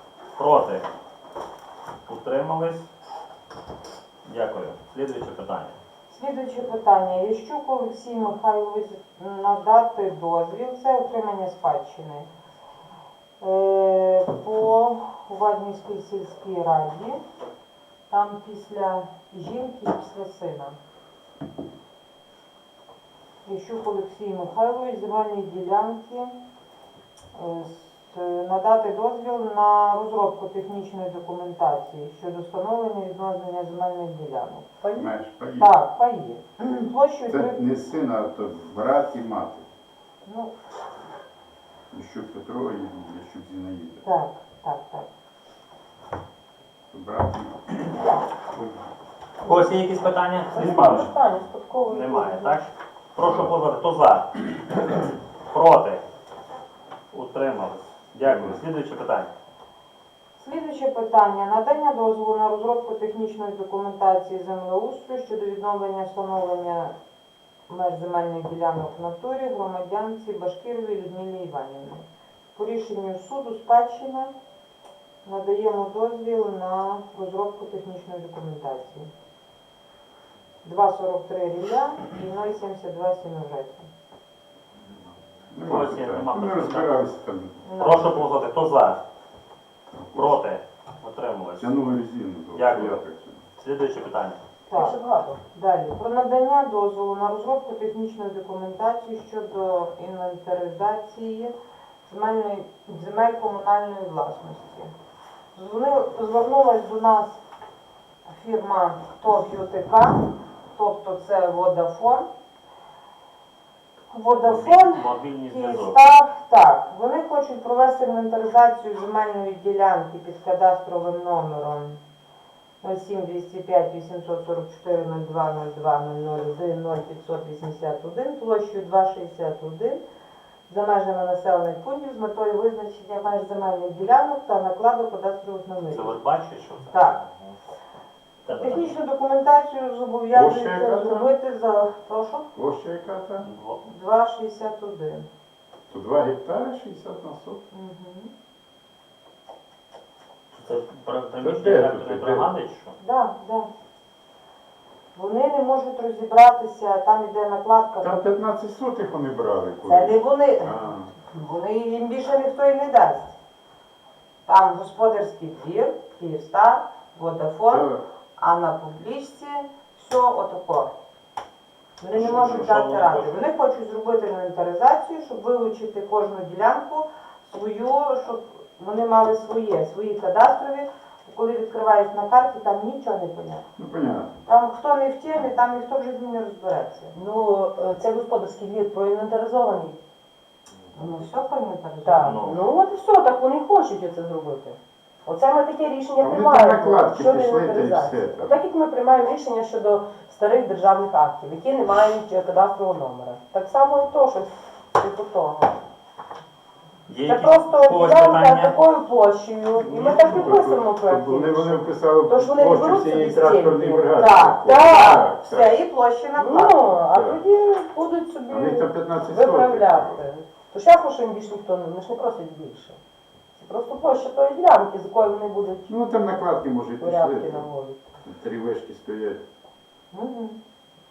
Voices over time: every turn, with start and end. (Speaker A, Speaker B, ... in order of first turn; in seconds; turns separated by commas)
Speaker A: 0.3-0.8, Speaker A: 2.0-2.9, Speaker A: 4.2-5.8, Speaker B: 6.1-12.3, Speaker B: 13.4-17.2, Speaker B: 18.1-20.8, Speaker B: 23.4-26.3, Speaker B: 27.3-34.7, Speaker C: 34.8-35.1, Speaker D: 34.9-35.7, Speaker B: 35.6-37.6, Speaker D: 37.3-39.6, Speaker B: 40.2-40.5, Speaker D: 41.9-44.0, Speaker B: 44.0-45.1, Speaker D: 46.9-48.7, Speaker A: 49.4-51.1, Speaker C: 50.5-52.6, Speaker D: 50.6-51.0, Speaker A: 51.9-56.0, Speaker D: 53.2-53.5, Speaker A: 57.1-59.3, Speaker D: 58.2-58.6, Speaker B: 60.4-66.9, Speaker B: 67.7-74.3, Speaker B: 75.2-79.1, Speaker B: 80.6-83.9, Speaker D: 85.5-87.6, Speaker A: 85.6-87.0, Speaker B: 87.6-88.2, Speaker A: 87.8-89.0, Speaker D: 89.9-90.4, Speaker A: 90.1-91.8, Speaker D: 91.6-93.4, Speaker A: 92.5-93.0, Speaker A: 93.6-94.4, Speaker B: 94.7-95.0, Speaker C: 94.7-95.4, Speaker B: 95.5-101.5, Speaker B: 102.0-104.9, Speaker B: 105.5-107.4, Speaker B: 108.3-112.3, Speaker B: 114.1-122.0, Speaker A: 114.4-116.0, Speaker B: 122.8-130.0, Speaker B: 130.7-136.2, Speaker A: 135.9-137.0, Speaker B: 136.9-137.2, Speaker A: 138.4-138.9, Speaker B: 138.5-142.5, Speaker D: 140.3-141.3, Speaker D: 142.5-143.5, Speaker A: 143.4-143.8, Speaker B: 143.8-145.3, Speaker D: 145.9-147.7, Speaker B: 147.7-148.3, Speaker A: 150.5-152.9, Speaker D: 151.4-152.5, Speaker B: 153.0-153.7, Speaker B: 155.1-158.2, Speaker D: 158.0-161.1, Speaker B: 159.8-160.7, Speaker B: 161.3-163.3, Speaker B: 164.4-170.9, Speaker D: 167.7-168.0, Speaker B: 172.0-183.6, Speaker A: 172.1-173.4, Speaker D: 172.1-172.7, Speaker D: 183.8-184.3, Speaker B: 184.4-187.1, Speaker C: 187.1-190.0, Speaker B: 190.9-192.4, Speaker C: 192.0-205.8, Speaker A: 192.2-192.6, Speaker D: 196.2-198.6, Speaker A: 207.1-208.8, Speaker C: 207.2-214.1, Speaker D: 209.8-215.8, Speaker B: 214.1-216.9, Speaker C: 216.4-223.0, Speaker D: 217.1-217.4, Speaker D: 218.5-220.2, Speaker C: 223.5-225.9, Speaker D: 225.9-227.7, Speaker C: 227.0-228.0, Speaker D: 228.2-229.4, Speaker B: 230.1-230.6